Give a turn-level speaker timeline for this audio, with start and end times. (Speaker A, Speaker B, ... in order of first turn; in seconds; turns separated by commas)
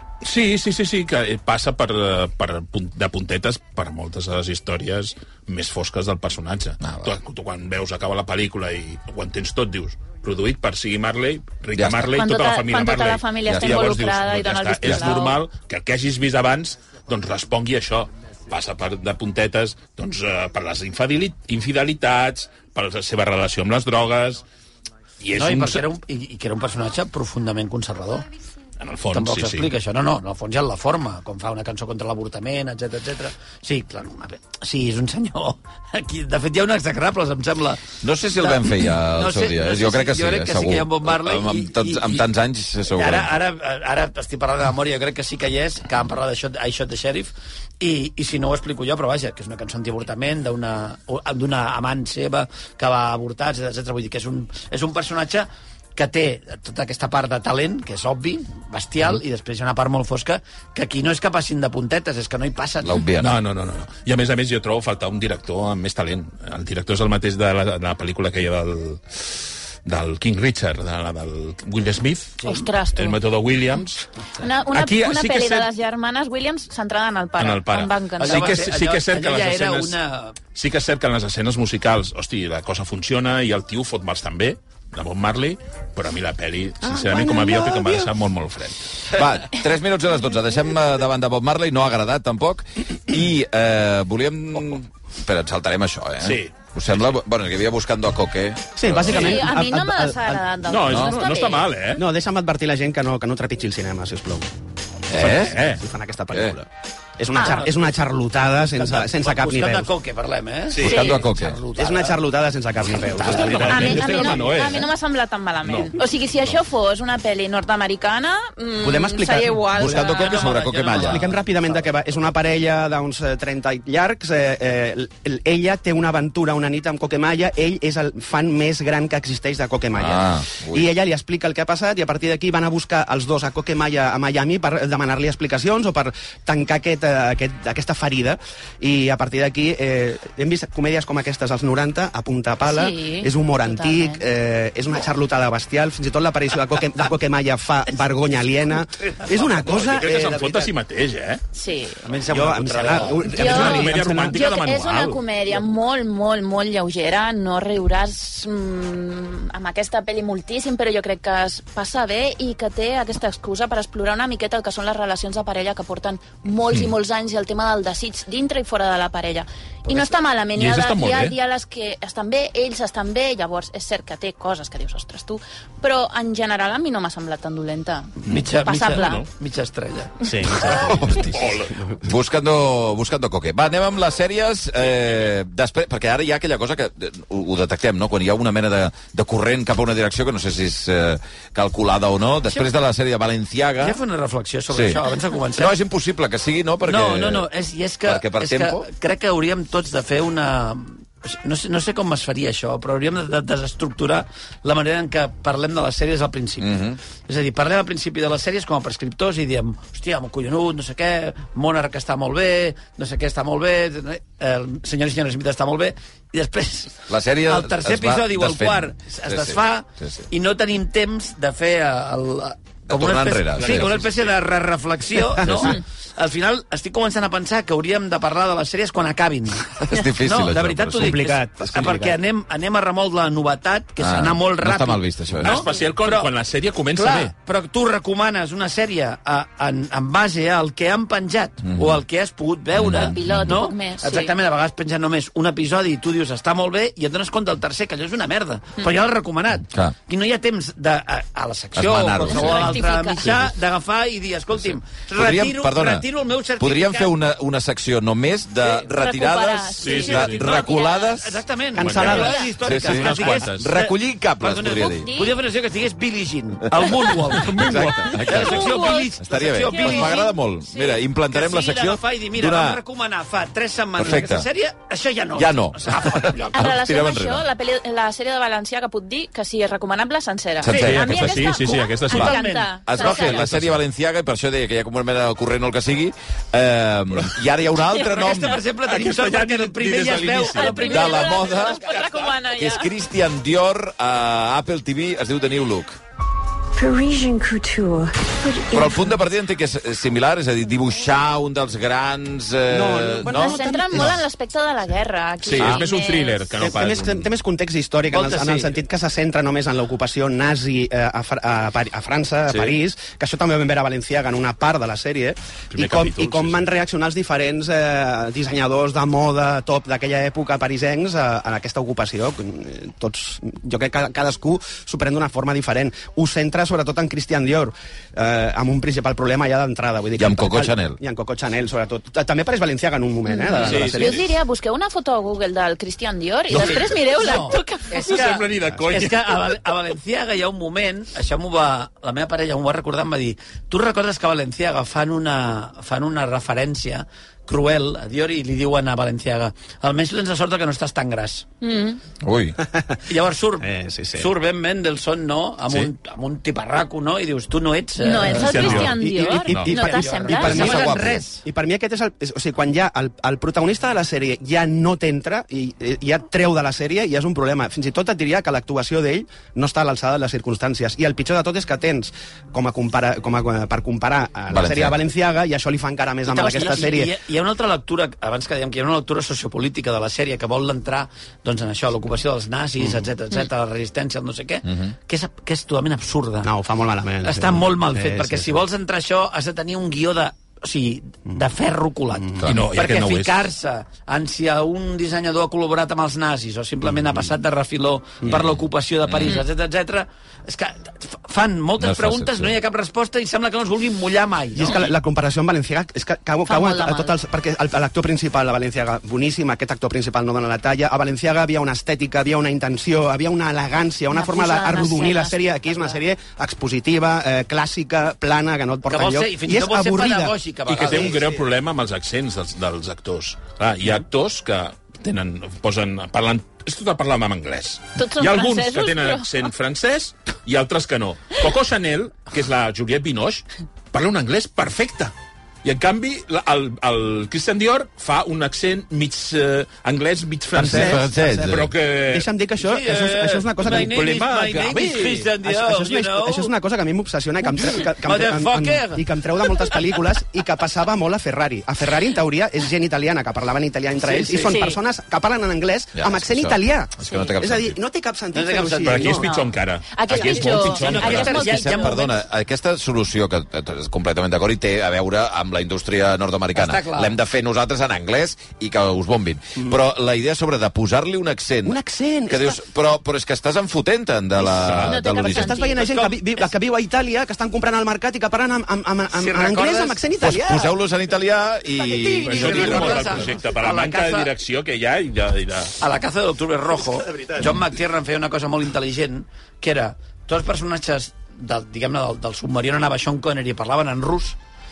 Speaker A: 0.2-24.4, Speaker B: 6.8-7.1, Speaker B: 11.8-12.2, Speaker C: 12.1-15.4, Speaker B: 13.5-13.7, Speaker A: 25.2-25.8, Speaker D: 25.3-28.2, Speaker A: 28.8-29.7, Speaker D: 29.1-42.2, Speaker B: 38.0-43.3, Speaker D: 42.9-63.0, Speaker B: 62.8-63.4, Speaker A: 63.2-74.1, Speaker C: 72.4-73.2, Speaker C: 74.4-78.6, Speaker A: 74.7-75.7, Speaker A: 77.4-80.0, Speaker D: 78.2-80.4, Speaker A: 80.5-89.1, Speaker E: 86.8-88.1, Speaker B: 89.1-99.3, Speaker A: 96.2-97.1, Speaker E: 98.8-100.5, Speaker A: 99.1-99.4, Speaker C: 99.1-101.7, Speaker A: 100.7-102.0, Speaker E: 102.0-104.5, Speaker B: 105.1-105.7, Speaker A: 105.2-105.8, Speaker E: 105.2-109.9, Speaker B: 106.3-106.6, Speaker C: 107.3-107.7, Speaker D: 108.8-112.2, Speaker A: 110.7-111.0, Speaker B: 110.8-111.6, Speaker C: 110.8-111.2, Speaker E: 111.8-114.6, Speaker D: 113.1-114.2, Speaker A: 113.2-114.9, Speaker C: 113.7-120.4, Speaker A: 115.6-116.0, Speaker E: 118.8-119.6, Speaker B: 119.7-121.4, Speaker D: 119.9-121.4, Speaker E: 121.0-150.7, Speaker B: 129.9-130.9, Speaker C: 142.6-144.2, Speaker A: 149.3-151.4, Speaker C: 151.5-152.1, Speaker D: 152.1-153.6, Speaker E: 152.2-154.4, Speaker A: 153.3-155.2, Speaker C: 153.3-179.2, Speaker A: 170.6-171.4, Speaker D: 178.3-180.7, Speaker A: 179.0-179.3, Speaker E: 180.3-180.7, Speaker A: 180.6-181.8, Speaker B: 180.7-194.0, Speaker D: 193.8-195.7, Speaker B: 194.7-195.0, Speaker B: 195.5-197.5, Speaker D: 196.8-236.3, Speaker B: 198.1-198.9, Speaker B: 206.6-207.0, Speaker B: 217.1-220.3, Speaker B: 222.9-223.9, Speaker A: 223.6-224.4, Speaker B: 225.4-225.8, Speaker B: 229.8-231.3, Speaker E: 231.0-232.2, Speaker B: 234.0-235.6, Speaker A: 235.4-237.3, Speaker D: 236.9-257.1, Speaker B: 241.7-242.0, Speaker B: 242.8-243.5, Speaker C: 242.9-244.3, Speaker B: 251.8-252.7, Speaker C: 252.3-253.3, Speaker B: 254.6-256.1, Speaker B: 256.6-261.4, Speaker C: 258.7-261.1, Speaker A: 259.8-260.5, Speaker D: 260.1-270.3, Speaker E: 261.8-262.5, Speaker A: 261.8-263.7, Speaker C: 262.1-262.5, Speaker B: 262.6-265.1, Speaker C: 264.9-265.4, Speaker B: 266.8-272.8, Speaker C: 268.3-271.0, Speaker D: 271.3-276.6, Speaker B: 274.0-274.5, Speaker B: 275.4-277.4, Speaker C: 276.5-283.5, Speaker B: 280.6-282.3, Speaker A: 280.7-282.4, Speaker D: 282.1-283.4, Speaker B: 282.9-288.6, Speaker A: 283.4-283.8, Speaker D: 288.0-291.9, Speaker A: 288.8-291.1, Speaker C: 290.4-292.9, Speaker B: 290.9-291.9, Speaker B: 292.6-296.0, Speaker F: 296.7-299.2, Speaker B: 298.7-304.1, Speaker E: 302.7-304.2, Speaker C: 303.3-306.6, Speaker A: 305.4-307.3, Speaker E: 306.6-334.3, Speaker D: 308.1-308.8, Speaker A: 315.7-316.7, Speaker B: 330.2-331.0, Speaker C: 333.3-338.0, Speaker A: 333.6-334.3, Speaker A: 336.5-337.0, Speaker D: 336.5-351.5, Speaker A: 337.9-339.6, Speaker C: 351.6-352.0, Speaker B: 352.2-352.6, Speaker E: 352.6-353.0, Speaker D: 353.1-358.9, Speaker E: 353.6-354.3, Speaker C: 358.0-360.9, Speaker A: 358.3-359.0, Speaker E: 358.5-377.1, Speaker D: 359.6-361.4, Speaker B: 360.3-361.2, Speaker B: 374.5-375.0, Speaker D: 376.2-386.5, Speaker C: 376.4-376.9, Speaker E: 382.8-383.1, Speaker B: 384.7-384.9, Speaker E: 386.4-388.6, Speaker D: 387.2-404.9, Speaker E: 392.1-392.5, Speaker B: 392.4-392.6, Speaker A: 392.5-393.4, Speaker E: 397.0-397.3, Speaker B: 398.3-398.5, Speaker B: 399.1-399.4, Speaker B: 401.8-402.5, Speaker E: 404.6-421.3, Speaker C: 406.5-407.1, Speaker C: 414.1-416.0, Speaker D: 418.9-421.2, Speaker A: 420.7-435.1, Speaker C: 428.0-429.5, Speaker A: 435.6-442.3, Speaker E: 440.5-444.2, Speaker B: 440.6-441.7, Speaker D: 442.6-446.5, Speaker A: 443.6-445.3, Speaker E: 445.4-459.4, Speaker D: 447.6-449.1, Speaker D: 454.0-454.7, Speaker C: 454.4-454.8, Speaker B: 456.0-457.8, Speaker C: 457.1-457.4, Speaker D: 458.3-459.3, Speaker A: 458.9-461.5, Speaker C: 459.9-462.1, Speaker D: 460.2-462.1, Speaker B: 460.9-475.5, Speaker D: 466.6-467.2, Speaker E: 471.6-472.6, Speaker A: 474.6-475.0, Speaker C: 474.7-475.9, Speaker E: 475.2-480.8, Speaker D: 475.7-476.4, Speaker D: 479.1-480.0, Speaker B: 480.2-483.1, Speaker D: 482.0-484.3, Speaker A: 482.2-485.8, Speaker E: 482.6-482.8, Speaker D: 485.8-494.4, Speaker E: 487.2-487.5